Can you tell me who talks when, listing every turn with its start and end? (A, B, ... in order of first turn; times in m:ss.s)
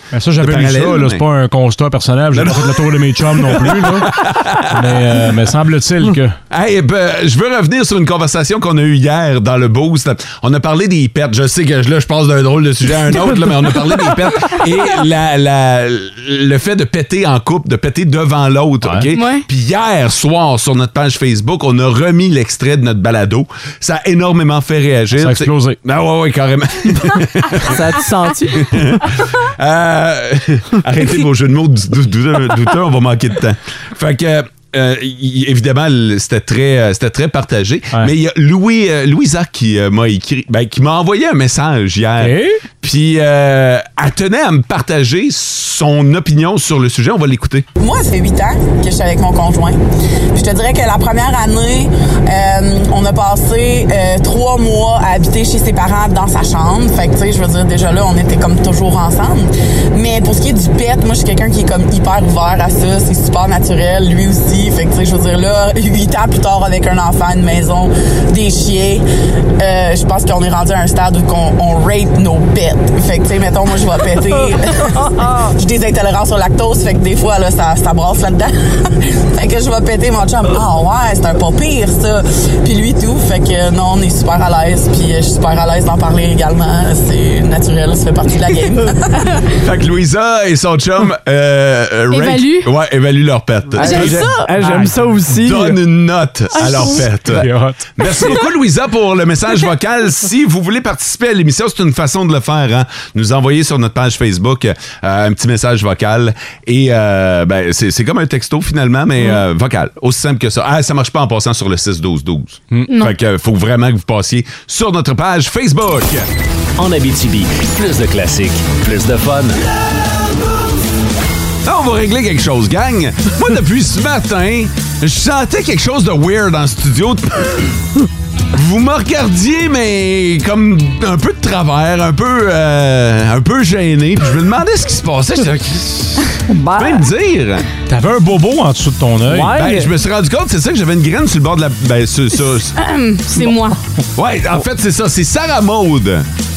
0:00.1-0:04.1 A
0:00.3-0:01.2 B
0:02.3-0:05.2 B
0:04.7-0:06.4 A
0:06.5-0:27.8 B
0:18.8-0:19.1 A
0:19.1-0:19.4 C
0:25.2-0:25.8 A
0:27.6-0:28.7 D
0:28.5-0:47.6 B
0:42.2-0:42.6 A
0:47.8-0:49.8 E
0:50.3-1:09.0 E
1:09.6-1:29.3 E
1:29.6-1:34.2 B
1:32.1-1:32.7 C
1:33.7-1:35.8 D
1:33.8-1:34.5 C
1:34.0-1:35.1 A
1:35.4-1:56.3 B
1:36.6-1:37.0 C
1:36.6-1:38.2 A
1:52.9-1:53.1 C
1:56.8-1:59.6 F
2:01.6-2:07.7 B
2:08.5-2:17.7 B
2:16.4-2:17.1 D
2:17.9-2:19.6 A
2:19.2-2:19.9 D
2:19.5-2:22.8 B
2:22.8-2:23.8 C
2:24.2-2:26.3 B